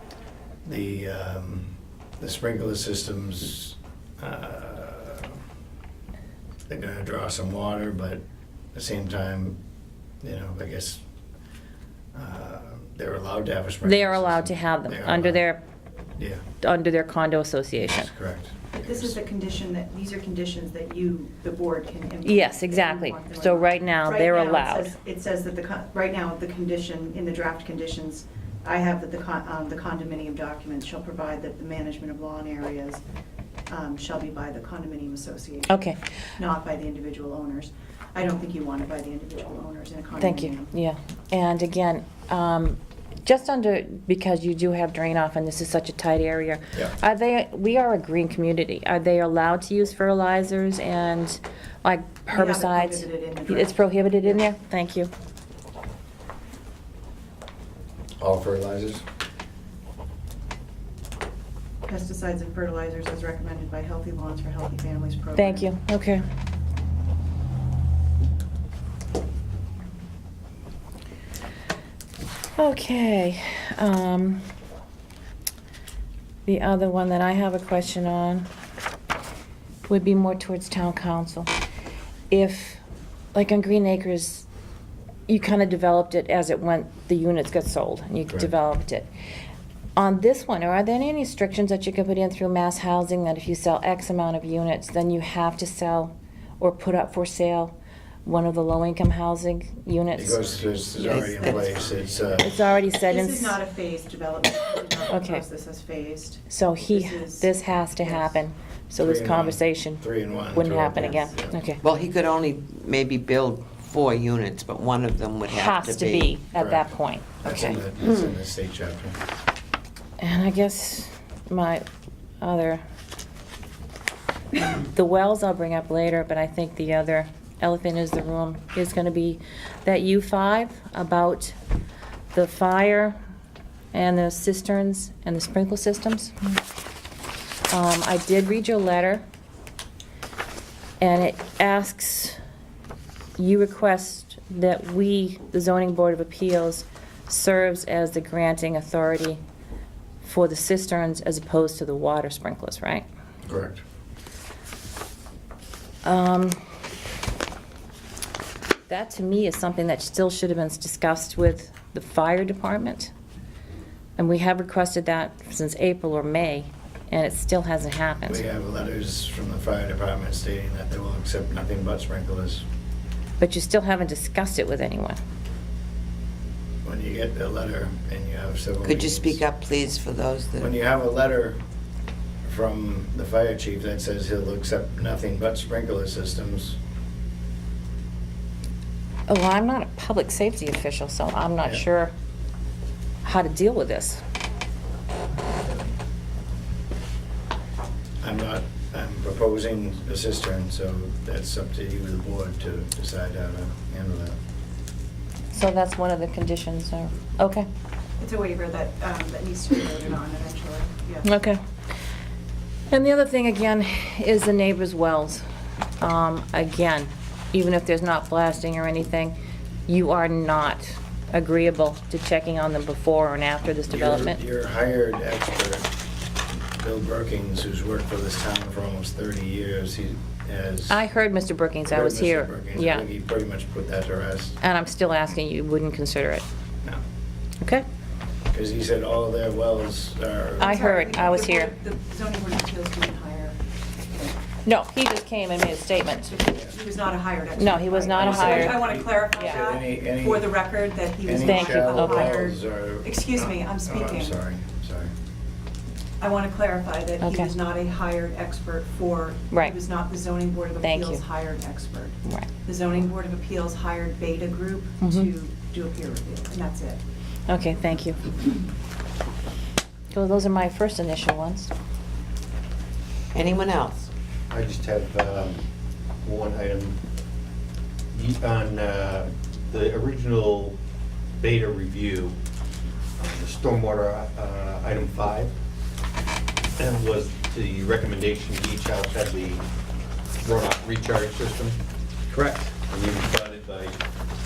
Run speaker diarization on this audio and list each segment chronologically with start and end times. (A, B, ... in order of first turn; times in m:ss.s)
0:00.6-0:05.4 A
0:06.7-0:09.6 A
0:10.2-0:11.0 A
0:12.1-0:15.4 A
0:13.8-0:15.6 B
0:16.2-0:16.4 A
0:16.6-0:18.1 B
0:17.8-0:19.2 A
0:18.8-0:33.0 C
0:22.2-0:24.9 B
0:33.7-0:40.7 C
0:35.7-0:36.0 B
0:40.2-0:55.1 B
0:52.3-0:54.5 C
0:58.2-0:59.0 A
1:01.9-1:05.7 C
1:05.4-1:06.3 B
1:12.6-1:14.4 B
1:16.4-1:18.5 B
1:19.9-1:21.5 B
1:22.3-1:22.8 B
1:23.3-1:24.4 B
1:25.3-1:29.1 B
1:30.0-1:40.4 B
1:40.2-1:42.6 A
1:41.0-1:41.9 C
1:41.1-1:41.4 B
1:42.4-1:43.6 B
1:43.0-1:48.4 C
1:45.1-1:45.4 B
1:46.5-1:51.8 B
1:49.0-1:51.6 A
1:51.8-1:56.3 D
1:55.5-1:57.8 B
1:56.6-1:59.2 A
1:57.5-1:57.8 D
2:00.2-2:01.8 B
2:02.4-2:02.8 B
2:04.6-2:11.6 B
2:12.3-2:13.2 B
2:13.9-2:16.6 B
2:17.7-2:19.2 B
2:21.0-2:22.4 B
2:23.4-2:29.4 B
2:30.2-2:33.0 B
2:33.4-2:33.8 A
2:36.0-2:36.6 B
2:38.9-2:43.1 B
2:44.2-2:48.4 B
2:48.2-2:52.7 A
2:53.4-2:55.2 B
2:56.8-2:59.4 A
2:58.8-3:00.7 D
3:00.6-3:01.6 A
3:02.4-3:06.8 A
3:09.3-3:12.1 B
3:13.2-3:14.2 B
3:18.2-3:24.4 A
3:25.5-3:27.7 B
3:28.2-3:31.3 C
3:31.2-3:31.6 B
3:32.9-3:35.4 B
3:36.0-3:39.4 B
3:39.9-3:44.4 B
3:43.9-3:45.9 A
3:46.7-3:51.0 A
3:50.9-3:53.0 B
3:51.9-3:54.6 A
3:54.6-3:56.4 B
3:57.6-3:57.8 B
3:58.5-4:00.7 A
4:00.6-4:03.6 C
4:00.6-4:01.7 B
4:04.6-4:06.3 B
4:06.3-4:14.4 C
4:07.6-4:08.8 B
4:08.1-4:10.6 A
4:11.2-4:15.1 A
4:11.4-4:12.4 B
4:16.2-4:27.0 C
4:17.2-4:17.5 B
4:20.8-4:21.2 B
4:25.0-4:25.3 B
4:27.5-4:28.2 B
4:30.1-4:31.7 B
4:33.3-4:34.1 D
4:34.5-4:35.6 E
4:36.2-4:37.0 E
4:38.1-4:40.8 E
4:41.4-4:42.4 E
4:43.2-4:45.5 E
4:46.8-4:49.6 E
4:50.4-4:51.8 E
4:52.3-4:54.0 E